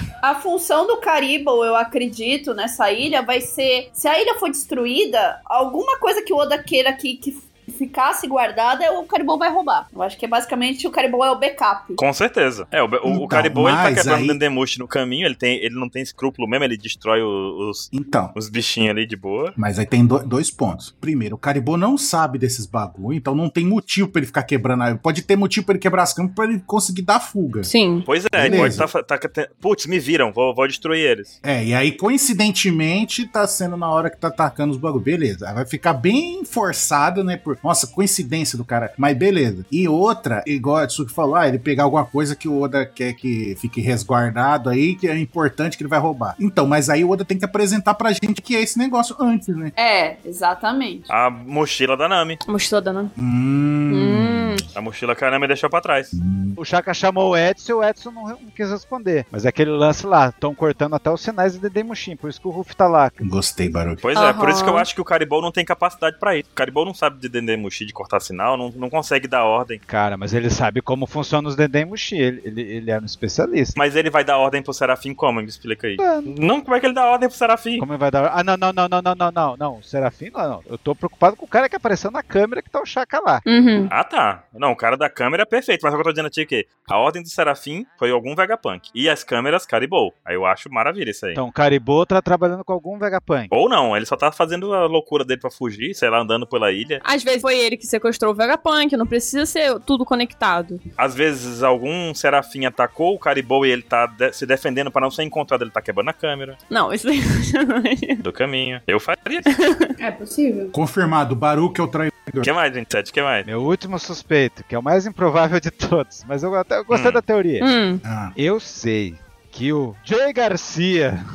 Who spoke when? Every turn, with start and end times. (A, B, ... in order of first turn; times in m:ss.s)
0:00.2-0:12.0 A
0:12.0-0:19.6 B
0:13.0-0:14.4 C
0:17.9-0:18.3 C
0:19.6-0:27.7 C
0:27.6-0:28.7 D
0:28.1-0:31.4 B
0:28.3-0:28.9 C
0:31.4-0:49.7 C
0:49.8-0:51.1 A
0:51.1-0:52.4 B
0:52.5-0:53.1 D
0:53.2-0:54.6 C
0:53.9-0:54.6 D
0:54.8-0:56.2 B
0:56.1-0:56.6 C
0:56.6-1:03.2 E
1:03.2-1:04.0 C
1:04.0-1:09.8 B
1:04.2-1:04.9 D
1:09.9-1:13.8 E
1:13.8-1:17.8 B
1:16.0-1:16.3 E
1:17.8-1:23.4 E
1:23.5-1:23.9 D
1:23.9-1:31.4 B
1:31.4-1:33.5 E
1:33.5-1:37.0 B
1:37.0-1:40.8 D
1:41.0-1:46.6 B
1:46.7-1:48.2 D
1:48.2-1:49.5 B
1:49.5-1:49.9 D
1:50.0-1:50.7 A
1:50.7-1:52.5 C
1:52.4-1:53.5 B
1:53.4-1:57.7 E
1:56.9-1:57.2 B
1:57.6-1:58.0 D
1:58.0-1:58.3 C
1:58.4-2:01.2 E